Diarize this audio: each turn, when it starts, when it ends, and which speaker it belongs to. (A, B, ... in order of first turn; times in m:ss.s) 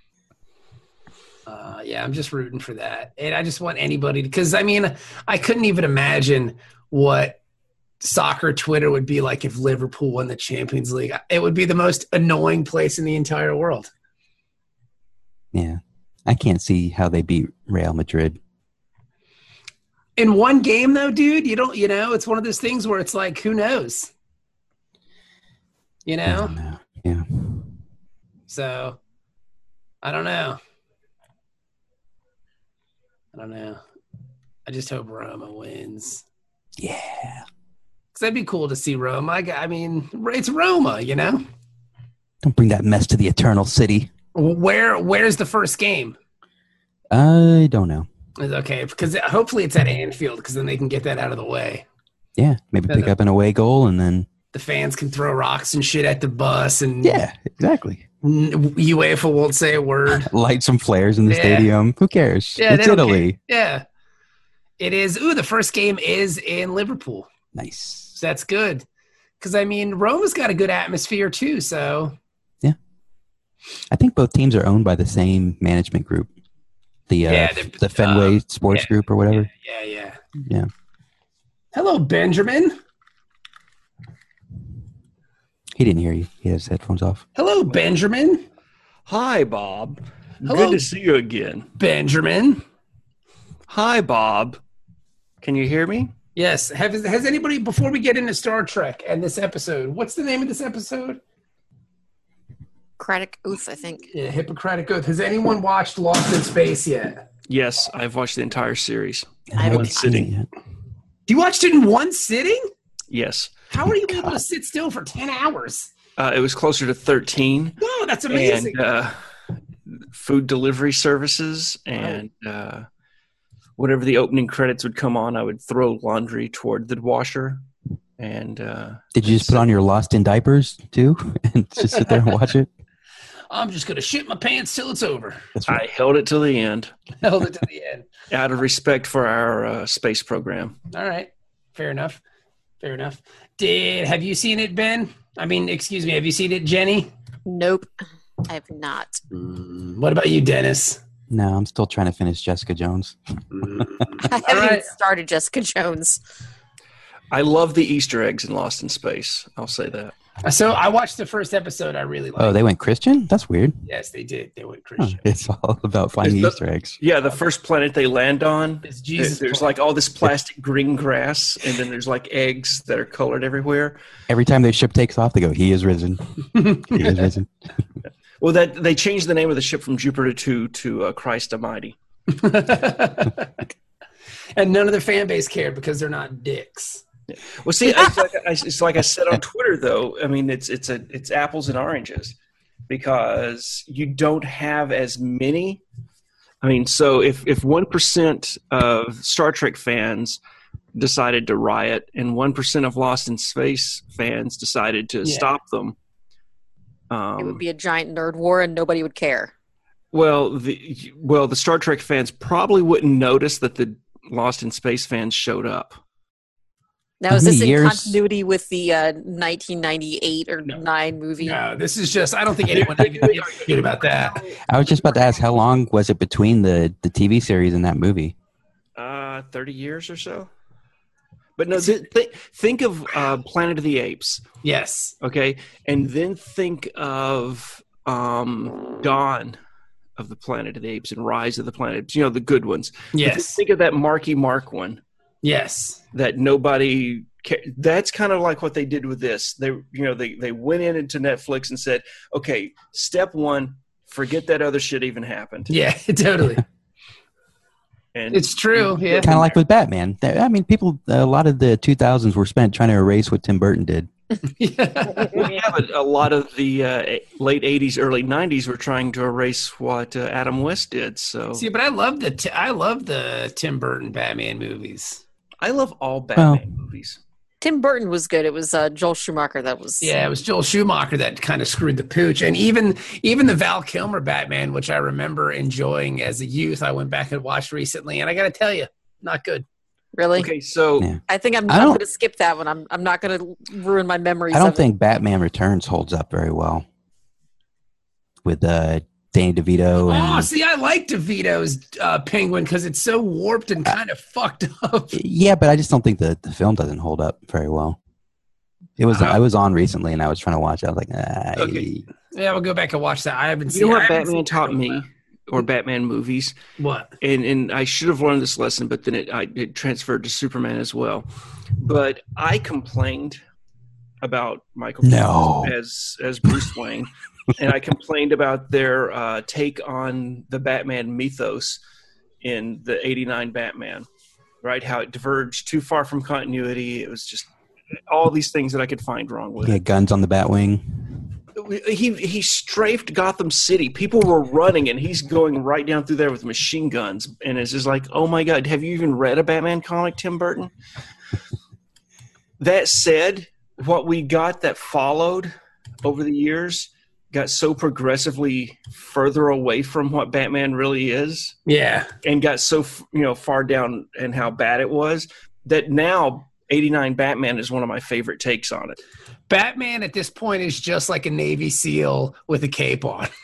0:01.4-0:07.4 A
0:08.0-0:13.9 A
0:15.5-0:18.4 B
0:20.2-0:24.1 A
0:26.0-0:26.5 A
0:26.2-0:27.8 B
0:28.5-0:29.0 A
0:30.0-0:30.6 A
0:33.3-0:33.8 A
0:34.6-0:36.2 A
0:36.8-0:37.4 B
0:38.1-0:41.4 A
0:42.4-0:44.1 B
0:44.3-0:46.2 A
0:47.1-0:48.1 B
0:48.4-0:51.8 A
0:52.4-0:54.3 B
0:52.9-0:53.1 A
0:54.5-0:57.2 A
0:57.0-0:58.0 B
0:58.2-1:00.3 A
1:00.1-1:03.4 B
1:01.3-1:01.7 A
1:02.6-1:03.8 A
1:04.8-1:07.3 A
1:07.5-1:08.1 B
1:08.2-1:08.8 A
1:09.4-1:12.2 A
1:13.9-1:16.3 B
1:17.1-1:19.5 B
1:17.3-1:20.2 A
1:21.7-1:22.7 A
1:25.8-1:27.2 B
1:27.4-1:28.4 A
1:29.1-1:31.7 C
1:30.4-1:30.8 A
1:31.8-1:32.6 A
1:33.7-1:34.6 C
1:35.4-1:36.1 C
1:36.4-1:41.2 A
1:43.0-1:44.1 D
1:44.1-1:47.3 A
1:47.5-1:50.3 C
1:49.5-1:50.5 B
1:49.6-1:50.0 D
1:51.3-1:52.7 A
1:53.1-1:53.5 C
1:53.7-1:55.9 A
1:54.1-1:54.4 B
1:56.2-1:59.1 C
1:57.8-1:58.8 A
1:59.9-2:02.8 C
2:02.0-2:02.2 A
2:03.8-2:07.6 C
2:08.2-2:09.6 C
2:09.1-2:12.7 B
2:13.5-2:15.5 A
2:15.6-2:15.8 B
2:15.6-2:16.9 C
2:17.2-2:18.1 A
2:18.3-2:20.8 C
2:20.9-2:22.2 A
2:22.8-2:27.1 A
2:27.4-2:27.9 D
2:28.4-2:29.2 D
2:29.3-2:31.0 A
2:31.3-2:33.2 B
2:33.5-2:34.9 A
2:34.2-2:36.2 D
2:37.3-2:40.1 C
2:40.4-2:42.6 A
2:42.4-2:43.8 B
2:43.8-2:45.2 A
2:45.0-2:47.0 B
2:46.2-2:54.0 C
2:48.8-2:49.7 A
2:54.3-2:57.5 B
2:56.5-2:57.3 A
2:58.4-3:02.0 C
3:02.3-3:03.6 A
3:04.6-3:07.0 A
3:07.3-3:12.3 C
3:12.9-3:15.8 C
3:16.6-3:20.4 C
3:20.9-3:26.0 C
3:25.2-3:25.5 A
3:27.1-3:27.6 C
3:27.4-3:29.5 D
3:30.1-3:36.0 C
3:37.2-3:41.6 D
3:37.3-3:38.2 B
3:41.4-3:44.4 A
3:42.6-3:45.3 C
3:44.7-3:48.3 B
3:49.0-3:50.5 C
3:51.6-3:54.4 C
3:54.6-3:55.1 A
3:55.2-3:59.6 C
4:00.2-4:05.0 C
4:03.1-4:03.6 A
4:05.4-4:06.0 A
4:06.1-4:15.7 C
4:15.7-4:16.6 A
4:18.1-4:19.5 C
4:18.3-4:19.4 A
4:19.2-4:24.1 B
4:24.5-4:25.5 A
4:25.2-4:31.6 C
4:31.5-4:35.2 A
4:35.6-4:37.2 C
4:36.4-4:36.6 B
4:37.6-4:40.2 D
4:40.0-4:49.6 A
4:50.2-4:50.5 D
4:50.3-4:51.1 C
4:51.0-4:52.0 B
4:51.3-4:54.9 D
4:54.5-4:56.8 B
4:58.4-5:00.5 B
5:00.0-5:05.2 A
5:05.1-5:08.0 B
5:09.0-5:12.0 B
5:09.1-5:09.4 A
5:11.6-5:11.8 C
5:12.3-5:15.0 A
5:13.7-5:16.6 C
5:16.8-5:17.1 A
5:17.2-5:21.2 C
5:21.8-5:23.4 C
5:24.2-5:31.8 C
5:25.0-5:25.7 B
5:32.4-5:34.1 C
5:34.6-5:37.5 C
5:38.1-5:39.8 C
5:39.6-5:41.1 B
5:41.5-5:50.7 C
5:52.6-5:55.5 C
5:56.0-6:01.6 C
6:01.7-6:02.1 A
6:02.2-6:09.0 C
6:09.5-6:13.3 A